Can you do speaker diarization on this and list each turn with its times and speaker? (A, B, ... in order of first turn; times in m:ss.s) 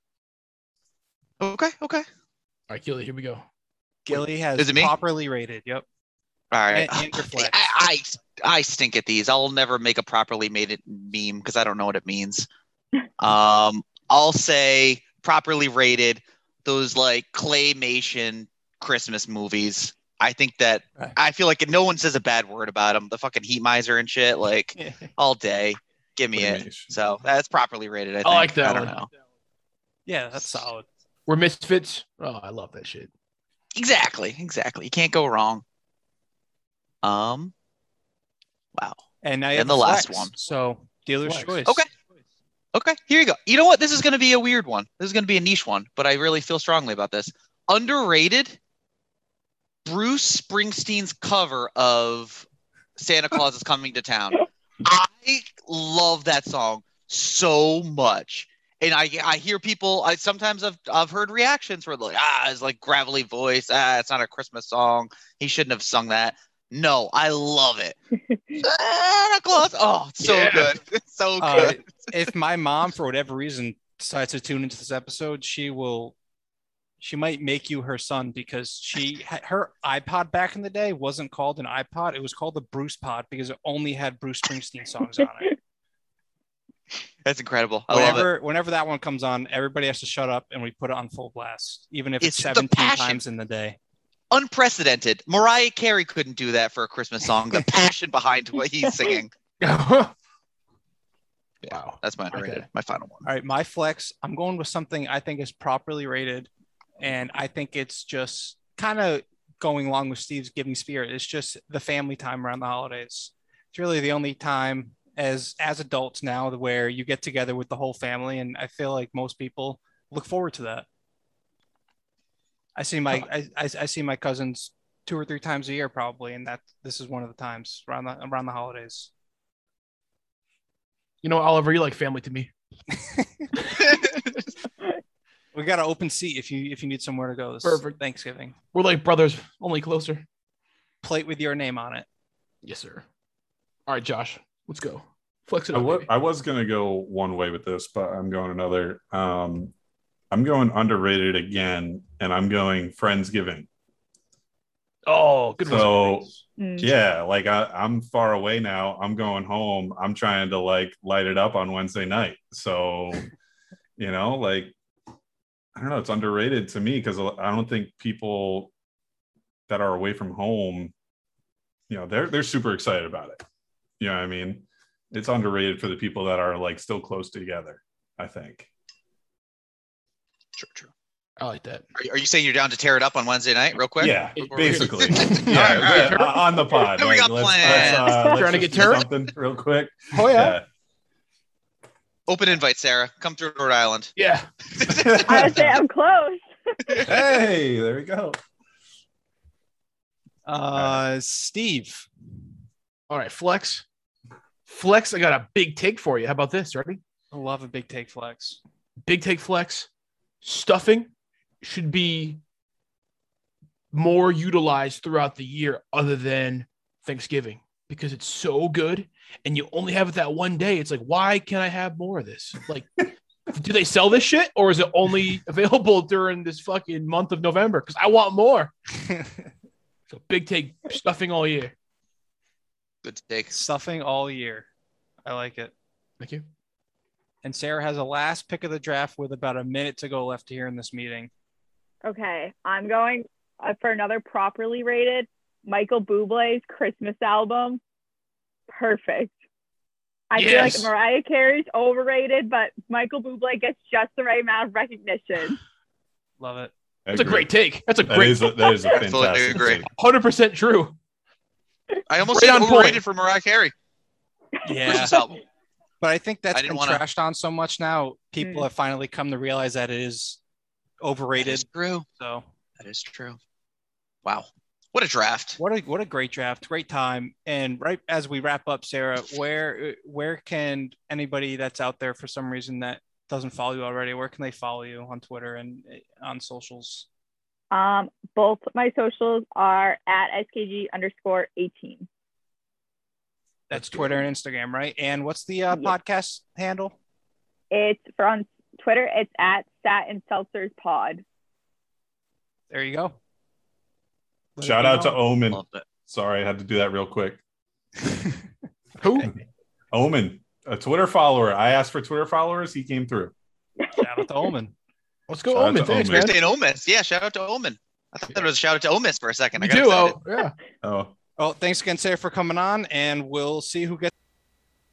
0:01.4-0:02.1 A
0:02.7-0:03.4 B
0:04.1-0:05.8 C
0:04.1-0:04.9 A
0:06.5-0:12.5 A
0:06.7-0:07.6 C
0:13.2-0:29.1 A
0:26.3-0:26.9 D
0:28.2-0:29.0 B
0:30.1-0:30.9 C
0:30.4-0:30.7 A
0:31.3-0:33.1 B
0:33.8-0:35.6 A
0:37.0-0:37.5 A
0:39.2-0:41.8 C
0:39.5-0:40.3 A
0:41.4-0:41.9 A
0:42.7-0:48.6 A
0:49.8-1:08.0 A
1:08.3-1:08.6 E
1:08.6-1:12.1 A
1:10.2-1:10.7 B
1:11.4-1:16.2 C
1:17.0-1:25.6 C
1:27.2-1:28.3 A
1:27.9-1:33.8 C
1:32.2-1:33.2 A
1:34.3-1:39.3 A
1:39.6-1:40.1 B
1:41.6-1:43.3 A
1:41.7-1:42.6 B
1:43.2-2:00.9 C
2:02.8-2:09.1 C
2:11.2-2:12.5 B
2:13.0-2:13.5 C
2:13.9-2:14.3 A
2:15.5-2:18.6 C
2:17.6-2:18.0 B
2:18.7-2:20.3 B
2:21.0-2:22.1 C
2:22.6-2:23.0 B
2:23.9-2:26.1 B
2:25.7-2:29.7 D
2:30.3-2:33.7 D
2:35.1-2:36.4 B
2:35.6-2:36.3 D
2:36.6-2:36.9 E
2:36.8-2:43.3 D
2:44.0-2:44.7 D
2:45.8-2:48.7 D
2:49.7-2:50.9 D
2:51.9-2:53.4 D
2:54.0-2:58.7 D
3:00.6-3:00.9 A
3:01.4-3:01.9 B
3:02.0-3:06.2 A
3:04.0-3:10.7 D
3:04.4-3:06.4 B
3:06.9-3:08.2 A
3:07.6-3:09.0 B
3:08.8-3:09.0 A
3:10.1-3:10.6 B
3:12.3-3:14.1 A
3:14.2-3:14.5 B
3:14.8-3:15.4 A
3:14.9-3:15.8 D
3:15.3-3:17.1 E
3:17.0-3:18.4 D
3:20.5-3:22.1 C
3:20.8-3:21.0 D
3:23.1-3:23.8 B
3:24.7-3:27.0 B
3:27.3-3:28.6 C
3:29.0-3:29.9 B
3:30.4-3:31.1 B
3:31.6-3:32.4 B
3:33.9-3:48.7 B
3:49.1-3:49.4 C
3:50.1-3:51.7 B
3:53.0-3:53.6 A
3:53.5-3:54.7 C
3:55.2-3:55.7 C
3:56.2-3:56.5 B
3:57.4-4:01.3 C
4:02.0-4:07.8 E
4:08.7-4:09.4 E
4:10.3-4:15.6 E
4:10.4-4:10.9 B
4:16.4-4:16.7 C
4:17.1-4:17.5 D
4:17.1-4:18.8 B
4:18.1-4:19.9 D
4:19.0-4:19.8 A
4:19.9-4:21.0 B
4:22.1-4:23.7 A
4:22.3-4:23.0 B
4:24.6-4:25.2 C
4:24.8-4:25.4 A
4:26.0-4:30.4 C
4:26.5-4:27.0 A
4:28.4-4:28.7 E
4:31.0-4:31.6 C
4:31.4-4:32.1 A
4:32.2-4:32.5 C
4:32.8-4:33.4 A
4:34.2-4:35.6 A
4:35.6-4:47.1 C
4:47.7-4:52.1 E
4:53.7-4:57.0 C
4:53.7-4:54.2 B
4:57.7-5:01.2 E
5:02.7-5:03.2 C
5:04.6-5:05.2 C
5:04.6-5:07.4 D
5:05.5-5:05.8 A
5:09.0-5:09.3 B
5:09.9-5:13.3 D
5:14.0-5:14.7 C
5:15.3-5:16.4 B
5:15.5-5:16.3 D
5:16.1-5:20.2 A
5:19.6-5:20.5 B
5:20.8-5:21.1 D
5:21.4-5:24.1 C